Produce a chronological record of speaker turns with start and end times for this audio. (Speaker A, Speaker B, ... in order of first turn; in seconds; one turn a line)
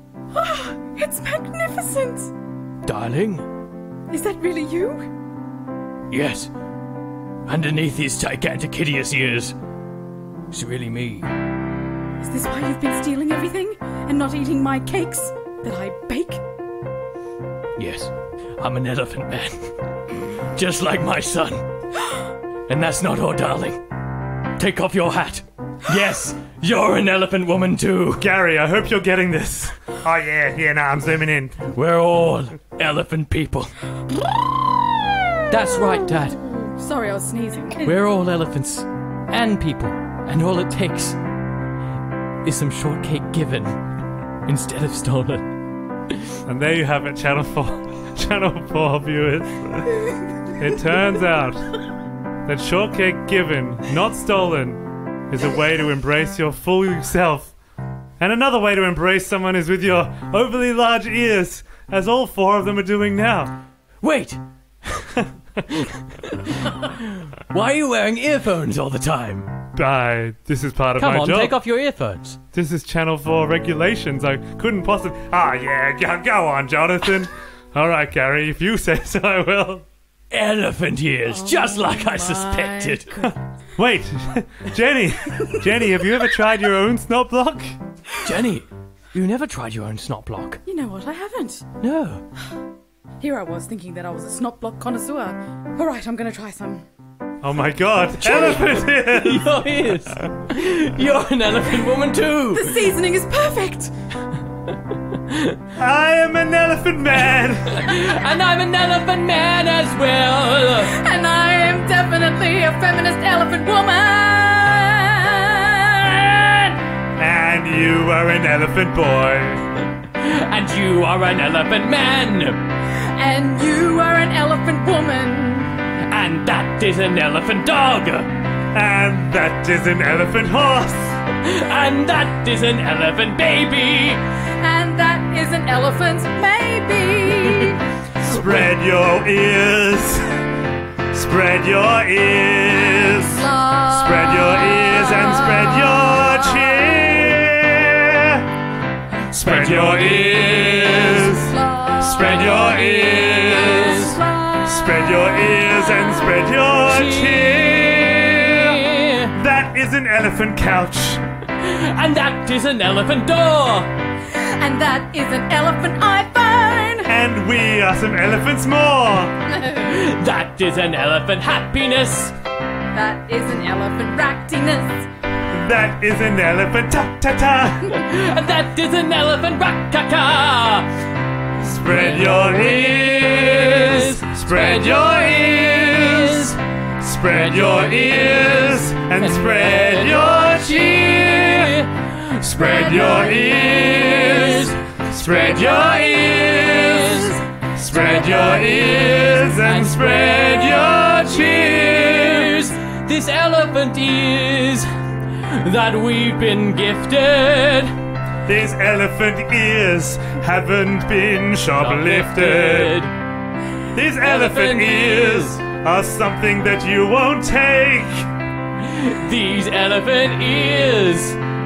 Speaker A: 0.3-2.3
Speaker B: 2.8-3.4
Speaker A: 4.1-5.1
Speaker B: 6.1-6.5
Speaker B: 7.5-9.5
Speaker B: 10.5-11.3
Speaker A: 12.2-16.4
Speaker B: 17.8-19.7
Speaker B: 20.5-21.6
Speaker B: 22.7-23.8
Speaker B: 24.6-28.3
Speaker C: 28.2-31.6
Speaker B: 31.7-33.7
Speaker B: 35.5-36.4
Speaker A: 35.7-37.9
Speaker B: 37.8-41.2
Speaker B: 42.4-43.8
Speaker B: 44.5-45.5
Speaker B: 46.1-46.3
Speaker C: 46.5-51.7
Speaker C: 52.4-57.5
Speaker C: 58.2-63.5
Speaker B: 64.0-69.5
Speaker C: 69.7-71.6
Speaker B: 71.0-72.4
Speaker C: 72.5-79.8
Speaker B: 80.3-83.2
Speaker A: 81.2-83.3
Speaker C: 83.3-87.8
Speaker B: 88.2-90.6
Speaker A: 90.7-91.7
Speaker B: 91.8-92.2
Speaker A: 93.2-96.8
Speaker C: 97.4-100.3
Speaker B: 98.2-102.9
Speaker A: 102.5-103.9
Speaker B: 104.7-105.6
Speaker C: 105.8-107.9
Speaker B: 107.6-110.9
Speaker A: 110.8-116.4
Speaker B: 116.3-116.7
Speaker C: 117.2-119.6
Speaker B: 120.1-122.6
Speaker A: 123.0-125.7
Speaker B: 126.1-128.3
Speaker C: 128.7-131.2
Speaker B: 131.4-134.2
Speaker A: 134.6-137.8
Speaker C: 138.2-140.4
Speaker C: 141.1-148.5
Speaker A: 142.7-147.2
Speaker C: 149.3-158.8
Speaker B: 149.4-151.3
Speaker A: 151.2-154.3
Speaker B: 152.2-159.3
Speaker C: 159.3-161.2
Speaker B: 161.6-163.9
Speaker A: 164.3-167.1
Speaker C: 167.1-169.3
Speaker A: 169.5-170.1
Speaker B: 169.8-172.3
Speaker A: 172.9-175.1
Speaker C: 175.5-178.0
Speaker B: 177.9-180.9
Speaker C: 181.6-186.5
Speaker B: 181.8-186.6
Speaker C: 187.0-191.6
Speaker B: 187.3-204.9
Speaker C: 192.4-197.2
Speaker C: 197.8-202.5
Speaker B: 205.4-207.9
Speaker C: 208.4-213.0
Speaker B: 211.7-213.1
Speaker C: 213.9-218.3
Speaker B: 214.2-215.6
Speaker B: 218.8-221.4